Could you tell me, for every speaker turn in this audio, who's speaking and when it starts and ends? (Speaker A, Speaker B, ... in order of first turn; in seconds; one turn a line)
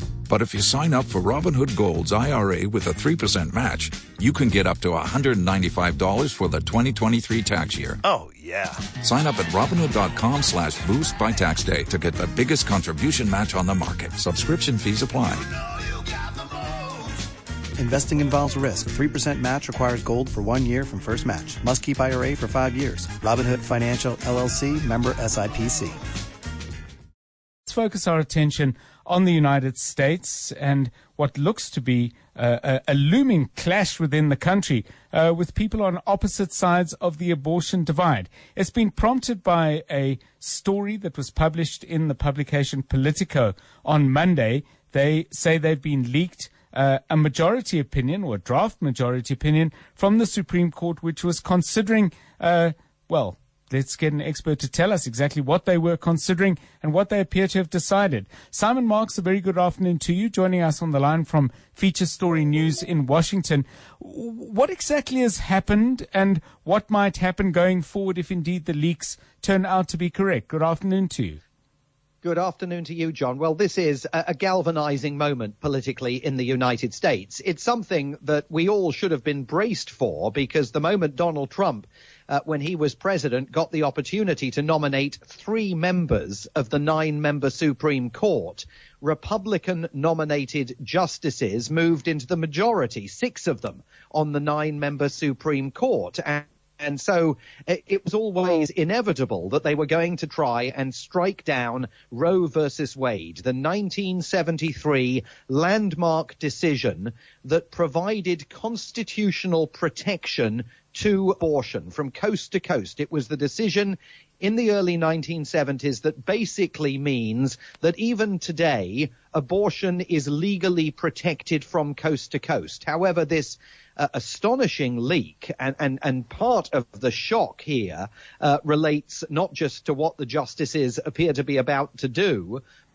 Speaker A: 0.3-8.0
Speaker B: 8.0-8.9
Speaker A: 9.0-15.5
Speaker B: 17.8-26.0
Speaker C: 27.7-71.4
Speaker D: 72.2-132.6